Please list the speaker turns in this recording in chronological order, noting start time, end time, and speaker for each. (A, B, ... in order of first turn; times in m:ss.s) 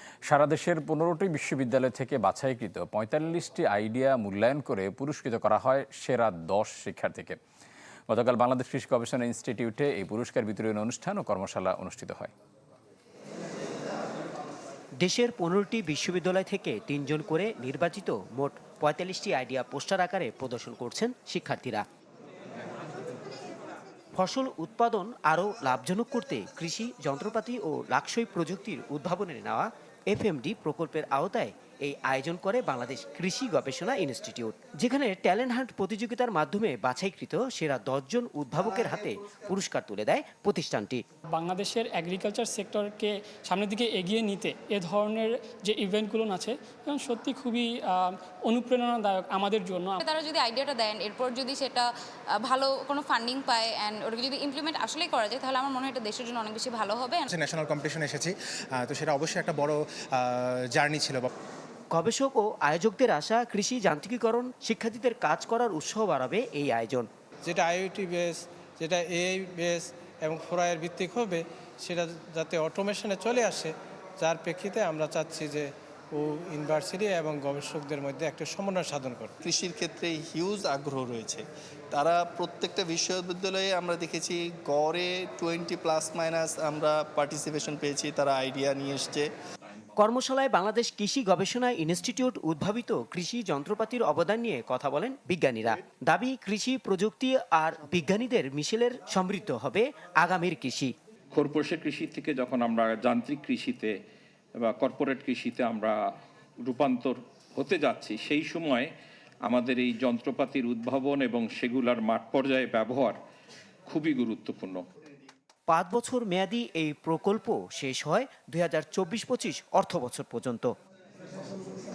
0:00.3-0:07.4 A
0:08.1-0:12.3 A
0:15.0-0:21.8 B
0:24.2-0:41.0 B
0:41.3-0:50.0 C
0:54.2-0:57.2 D
0:57.3-1:01.3 E
1:01.9-1:07.1 B
1:07.5-1:19.3 F
1:19.4-1:29.3 G
1:30.0-1:40.9 B
1:41.3-1:43.9 H
1:44.6-1:46.0 H
1:46.6-1:48.9 H
1:49.5-1:53.2 H
1:53.9-1:54.8 H
1:55.7-2:00.7 B